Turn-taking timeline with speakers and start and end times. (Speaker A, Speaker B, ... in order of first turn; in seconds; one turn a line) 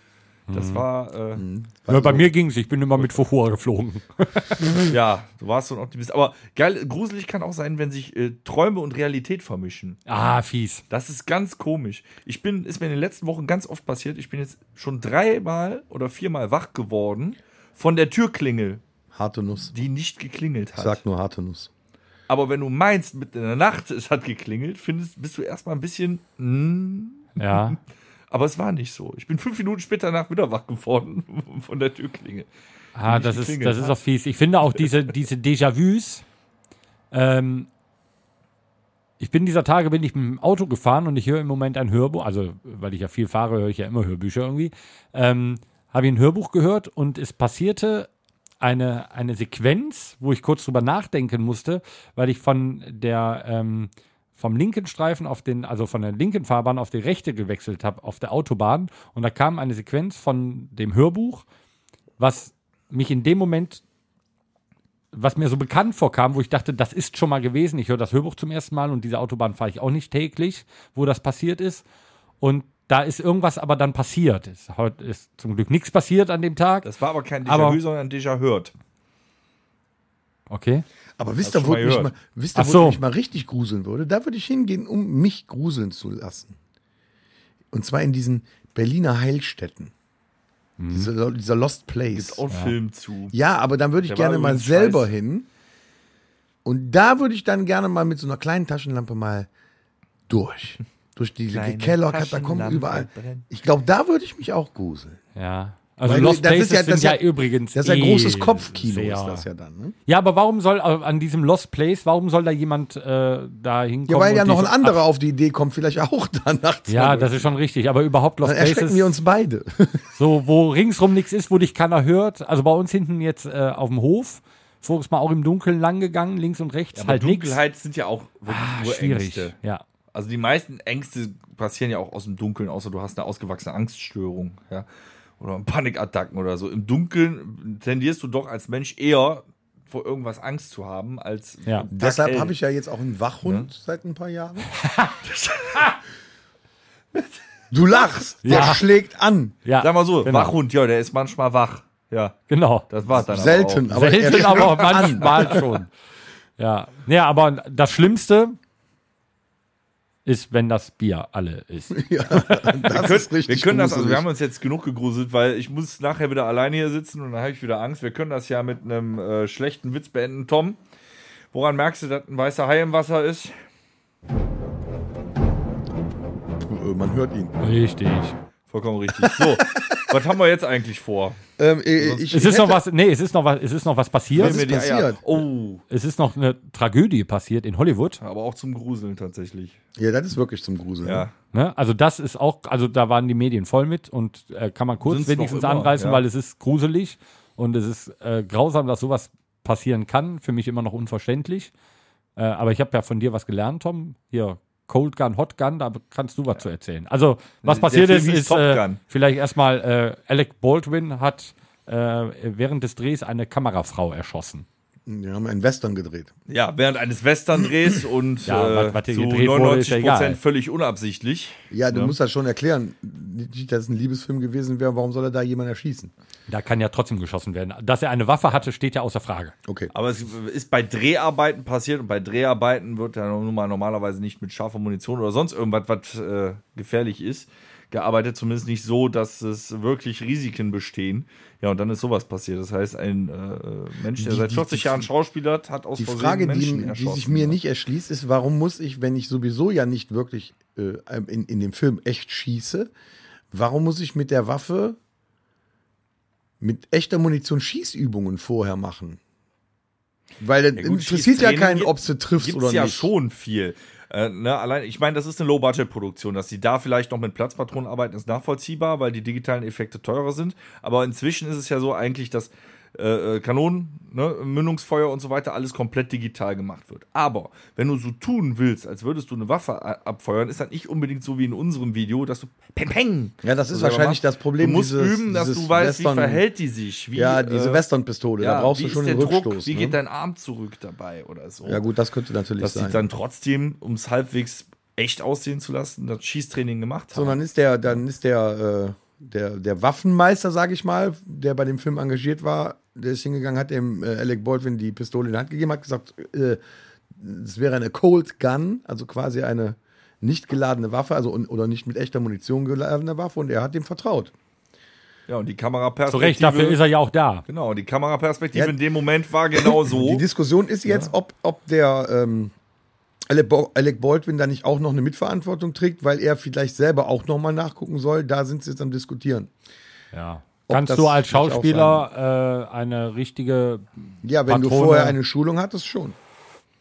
Speaker A: 0.5-0.8
Speaker B: 0.5-1.4
Speaker C: 1.4-2.3
Speaker A: 1.9-4.8
Speaker B: 4.8-10.0
Speaker A: 10.1-10.8
Speaker B: 10.9-18.8
Speaker C: 19.1-19.7
Speaker B: 19.7-21.0
Speaker C: 20.8-21.7
Speaker B: 22.3-27.8
Speaker A: 27.4-27.8
Speaker B: 28.3-32.5
Speaker A: 33.0-36.2
Speaker B: 33.0-34.0
Speaker A: 37.1-37.7
Speaker A: 39.2-48.1
Speaker A: 48.6-61.5
Speaker A: 62.2-63.8
Speaker A: 65.1-71.8
Speaker A: 72.4-76.9
Speaker B: 76.8-78.7
Speaker A: 77.5-77.8
Speaker A: 80.5-80.8
Speaker C: 81.2-86.6
Speaker B: 81.4-82.1
Speaker A: 82.5-83.0
Speaker C: 87.7-89.9
Speaker A: 90.8-91.1
Speaker C: 90.9-92.4
Speaker B: 92.2-93.4
Speaker C: 93.3-95.5
Speaker B: 94.0-95.1
Speaker C: 96.7-99.5
Speaker C: 100.3-105.2
Speaker B: 101.5-103.5
Speaker A: 105.3-109.5
Speaker C: 106.0-107.2
Speaker C: 107.7-110.0
Speaker A: 110.1-115.0
Speaker C: 114.1-117.5
Speaker A: 116.9-119.1
Speaker C: 118.4-120.0
Speaker A: 120.2-127.6
Speaker B: 127.0-129.5
Speaker A: 128.5-129.8
Speaker B: 130.1-134.9
Speaker B: 135.4-142.6
Speaker C: 141.9-144.7
Speaker B: 143.4-143.7
Speaker A: 144.8-145.2
Speaker B: 145.2-146.0
Speaker C: 147.7-149.6
Speaker A: 148.4-148.8
Speaker A: 149.7-150.6
Speaker B: 149.8-155.5
Speaker A: 152.5-152.9
Speaker C: 153.1-155.7
Speaker A: 153.9-155.9
Speaker A: 156.6-158.6
Speaker A: 160.3-162.6
Speaker C: 161.9-164.3
Speaker B: 162.9-170.8
Speaker B: 171.5-173.5
Speaker C: 176.6-177.5
Speaker A: 177.6-178.4
Speaker B: 178.7-181.4
Speaker C: 179.2-180.2
Speaker C: 181.6-182.8
Speaker B: 182.0-182.4
Speaker A: 182.3-184.6
Speaker C: 184.3-185.2
Speaker B: 184.3-185.8
Speaker A: 185.9-188.2
Speaker B: 188.2-189.8
Speaker C: 190.0-191.3
Speaker B: 191.0-191.3
Speaker A: 191.5-201.7
Speaker B: 195.1-196.2
Speaker A: 202.4-214.7
Speaker B: 207.6-209.0
Speaker C: 215.1-216.3
Speaker B: 216.5-222.2
Speaker A: 218.5-220.4
Speaker C: 221.7-226.1
Speaker A: 226.5-229.5
Speaker C: 229.7-229.9
Speaker B: 229.9-247.6
Speaker C: 244.2-245.1
Speaker C: 246.0-252.9
Speaker C: 253.5-255.0
Speaker C: 256.6-259.2
Speaker C: 260.4-263.1
Speaker B: 260.8-287.8
Speaker C: 283.4-286.4
Speaker C: 287.1-290.0
Speaker B: 288.4-291.8
Speaker C: 291.6-293.0
Speaker B: 292.6-297.4
Speaker C: 297.1-306.6
Speaker C: 307.1-314.3
Speaker B: 315.3-316.8
Speaker A: 316.1-317.4
Speaker B: 317.5-320.2
Speaker C: 319.6-322.5
Speaker B: 320.9-321.1
Speaker C: 323.3-329.5
Speaker A: 330.1-335.2
Speaker C: 330.7-332.1
Speaker C: 334.2-336.2